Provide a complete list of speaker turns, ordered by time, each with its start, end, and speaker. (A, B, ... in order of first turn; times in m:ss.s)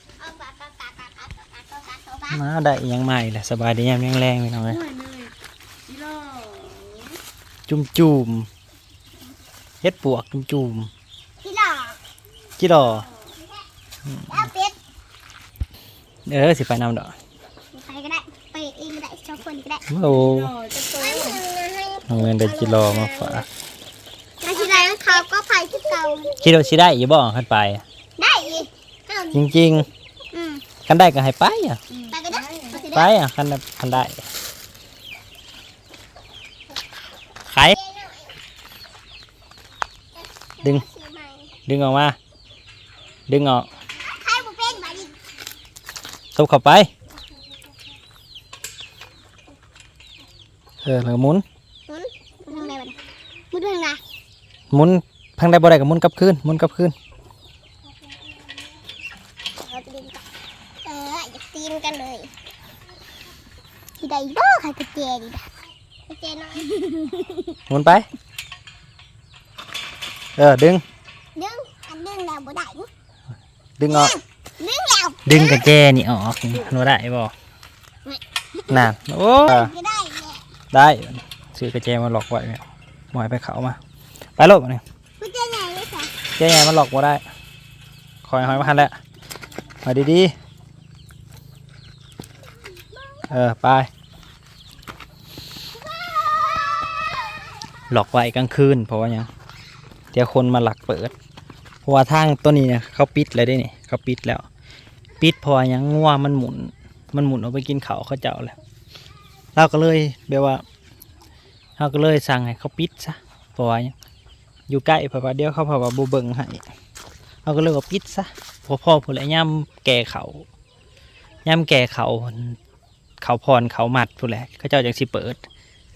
0:00.2-0:02.4 A
0:02.3-0:04.8 B
0:04.7-0:05.3 C
0:05.9-0:07.1 C
0:07.7-0:08.5 B
0:09.8-0:10.9 B
0:11.4-0:12.0 A
0:12.6-0:13.1 B
0:14.1-0:14.3 B
0:14.3-0:14.8 A
0:16.3-0:17.2 B
0:17.7-0:19.8 A
0:19.9-0:20.5 B
0:20.0-0:21.4 C
0:20.9-0:23.4 A
0:22.1-0:23.5 B
0:24.4-0:26.4 A
0:24.6-0:24.9 C
0:26.4-0:27.8 B
0:28.2-0:29.5 A
0:29.3-0:29.9 B
0:30.3-0:30.7 A
0:30.8-0:31.8 B
0:32.1-0:33.1 A
0:32.3-0:32.8 C
0:32.9-0:34.2 B
0:37.5-0:37.8 B
0:37.7-0:38.4 A
0:40.2-0:41.5 A
0:41.7-0:42.2 B
0:43.3-0:43.7 B
0:44.0-0:45.2 A
0:46.4-0:46.9 B
0:50.8-0:51.4 B
0:51.9-0:53.0 A
0:53.5-0:54.0 A
0:54.7-0:57.0 B
0:59.6-1:00.2 A
1:00.8-1:02.3 A
1:04.0-1:05.5 A
1:06.1-1:07.6 A
1:07.7-1:08.1 B
1:10.4-1:10.8 B
1:11.4-1:12.9 A
1:13.8-1:14.2 B
1:13.9-1:15.6 A
1:15.3-1:17.3 B
1:18.0-1:18.9 A
1:18.7-1:19.7 B
1:19.4-1:20.4 A
1:20.7-1:23.8 B
1:24.4-1:24.8 B
1:25.2-1:26.2 A
1:26.4-1:27.2 B
1:28.2-1:29.0 B
1:29.8-1:30.3 B
1:33.3-1:33.9 B
1:37.9-1:39.3 B
1:40.1-1:41.1 B
1:41.8-1:44.5 B
1:45.2-1:48.6 B
1:49.6-1:50.6 B
1:51.8-1:53.9 B
1:54.7-1:56.6 B
1:57.4-2:00.5 B
2:01.5-2:02.6 B
2:03.2-2:05.4 B